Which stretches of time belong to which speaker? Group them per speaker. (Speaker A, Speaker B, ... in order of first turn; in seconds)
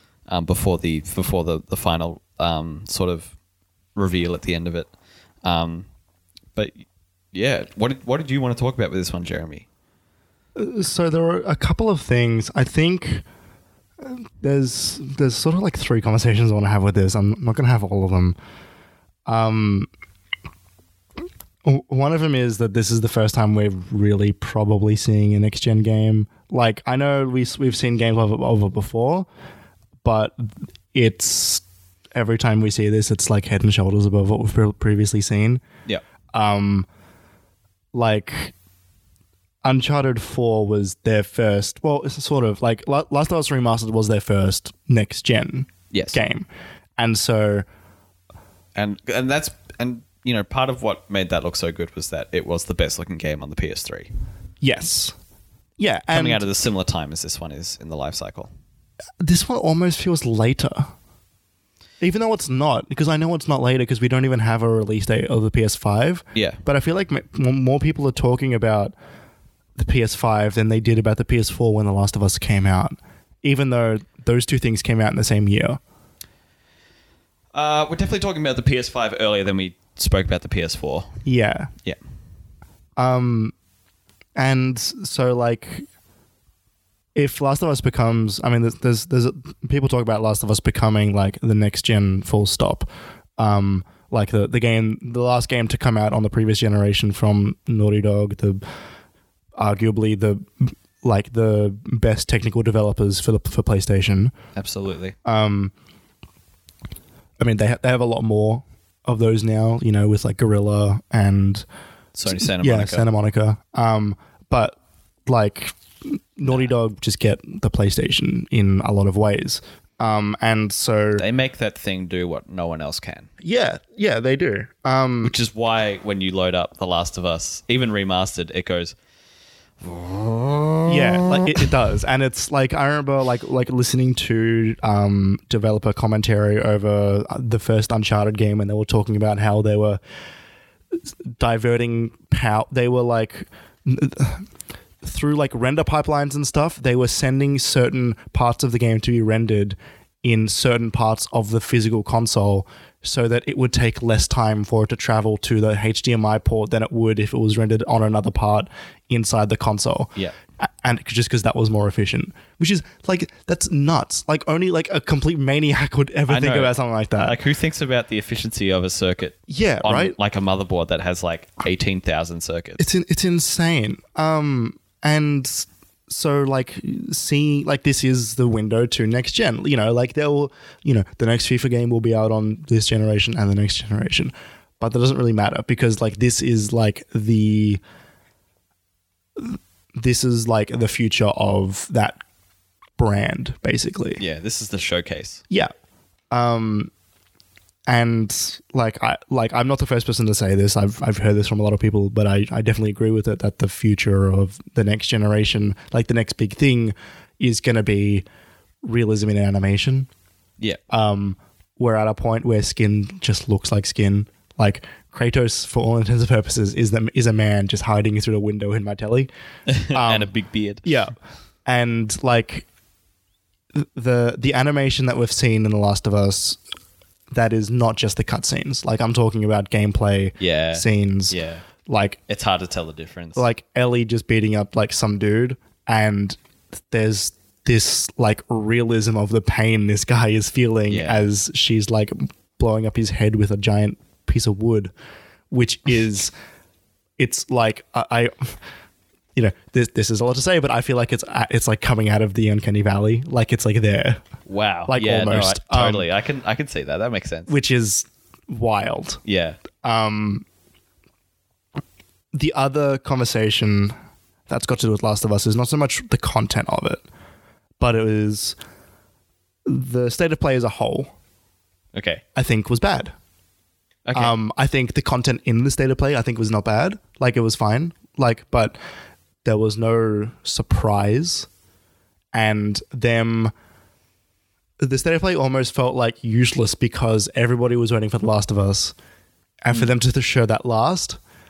Speaker A: 0.3-3.3, 4.0-4.9, 5.4-5.9, 6.5-9.7, 45.9-46.2, 48.7-54.1, 56.1-58.5, 66.3-66.6, 77.5-81.1, 104.5-105.1, 112.1-113.1, 121.2-123.3, 125.2-128.9, 129.8-131.7, 166.3-172.8, 194.2-195.4, 219.7-220.9, 230.4-231.6, 232.3-233.5, 240.9-241.2, 254.4-257.5, 259.2-259.6, 271.9-272.2, 274.1-274.3
Speaker B: 10.6-13.2, 14.0-18.4, 19.2-19.9, 21.6-29.3, 30.0-35.6, 36.3-36.9, 37.9-38.5, 39.6-47.6, 54.6-55.1, 55.8-56.4, 59.2-60.9, 62.0-68.9, 69.8-75.8, 81.2-81.7, 83.0-83.5, 84.3-85.8, 87.1-92.9, 93.4-98.6, 99.5-104.3, 105.2-105.7, 107.4-111.7, 112.3-121.2, 123.4-125.3, 130.9-140.0, 141.3-144.4, 145.0-167.3, 169.5-170.1, 172.8-187.8, 189.4-192.2, 193.0-194.2, 196.3-196.9, 197.9-208.2, 208.8-210.1, 210.9-219.3, 219.9-220.3, 220.8-222.7, 223.7-226.6, 227.3-232.2, 233.3-236.4, 236.9-244.9, 245.5-246.3, 247.2-248.6, 249.3-254.2, 254.9-256.1, 257.5-259.2, 259.8-260.4, 262.3-263.9, 264.5-267.0, 267.8-268.6, 269.6-271.1, 272.3-273.1, 274.1-278.8, 279.4-281.5, 282.3-283.5, 284.8-288.9, 289.6-291.2